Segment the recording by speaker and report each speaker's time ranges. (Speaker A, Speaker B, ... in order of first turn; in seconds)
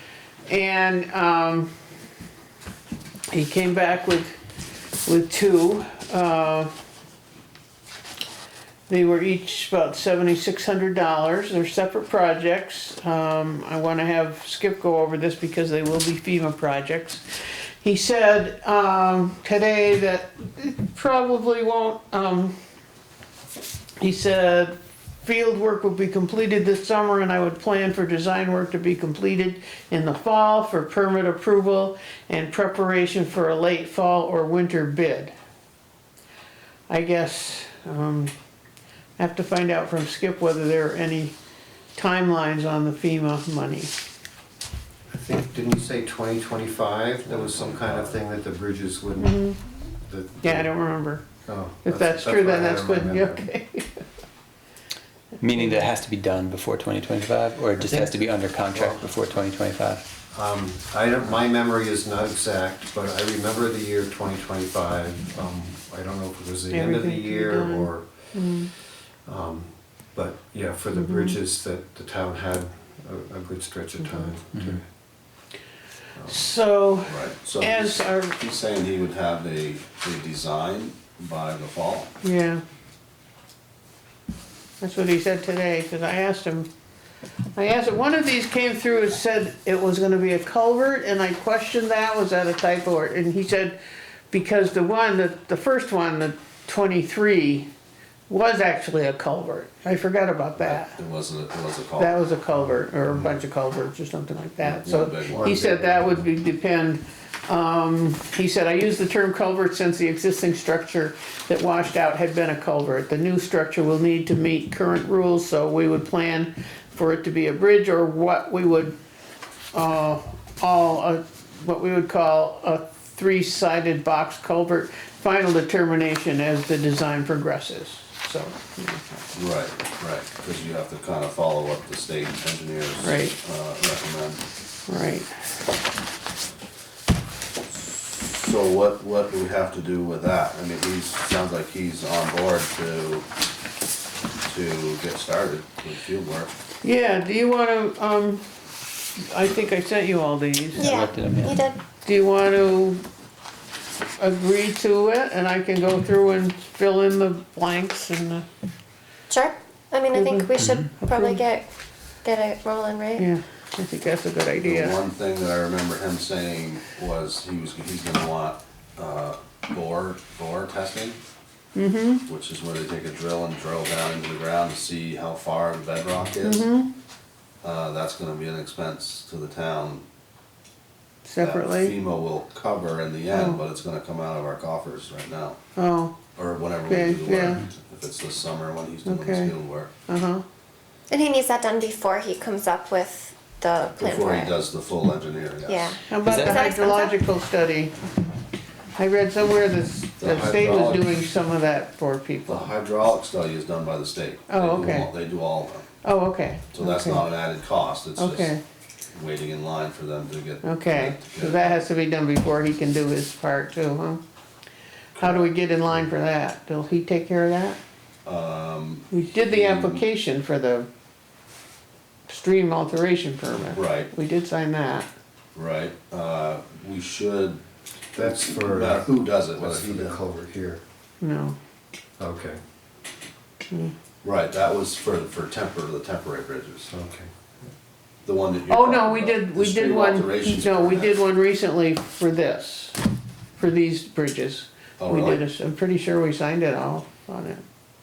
Speaker A: 0.5-1.7, 3.3-4.3, 5.1-6.7, 8.9-17.2, 17.8-22.6, 24.0-35.3, 36.9-38.3, 39.2-41.4, 42.0-43.9, 49.2-49.6, 50.4-51.2, 51.9-54.0, 55.6-55.8, 66.7-68.7, 71.0-71.4, 74.0-74.3, 76.3-78.4, 82.2-82.6, 84.8-86.7, 87.6-93.8, 94.3-97.7, 98.3-101.0, 102.0-119.0, 119.7-129.1, 133.0-133.4, 134.9-135.3, 146.8-148.4, 149.2-150.9, 152.1-153.0, 154.2-158.5, 160.1-161.4, 163.2-165.0, 171.8-172.2, 176.4-176.9, 181.2-182.0, 183.3-183.6, 185.8-186.2, 186.9-187.6, 189.1-189.5, 190.1-190.4, 196.1-197.9, 199.0-202.7, 204.5-205.1, 206.0-207.3, 208.2-208.6, 210.6-214.2, 215.2-217.8, 219.1-220.9, 222.3-225.1, 231.2-231.6, 238.7-243.0, 243.6-247.6
Speaker B: 45.1-49.4, 50.0-50.7, 51.5-53.5, 57.8-58.1, 58.7-59.0, 60.3-68.1, 69.2-74.8, 76.2-76.5, 105.3-106.2, 228.2-230.8, 232.2-232.6, 236.8-237.3
Speaker C: 47.2-48.2, 77.1-82.1, 100.6-102.1, 104.6-105.6, 129.3-134.4, 138.1-143.3, 144.4-146.5, 164.6-171.2, 172.3-176.7, 177.6-180.0, 181.4-185.6, 186.3-189.9, 194.0-195.9, 200.2-201.2, 202.5-205.9, 206.7-208.5, 209.1-211.8, 215.2-215.5, 218.2-220.0, 223.7-224.1, 225.6-227.6, 228.2-230.2, 234.2-236.9, 238.2-241.2, 245.0-245.4
Speaker D: 55.4-60.0, 150.8-151.6, 160.6-160.9, 196.2-196.6
Speaker E: 150.8-151.8, 159.3-161.7, 162.2-163.2, 191.1-194.5, 195.7-197.2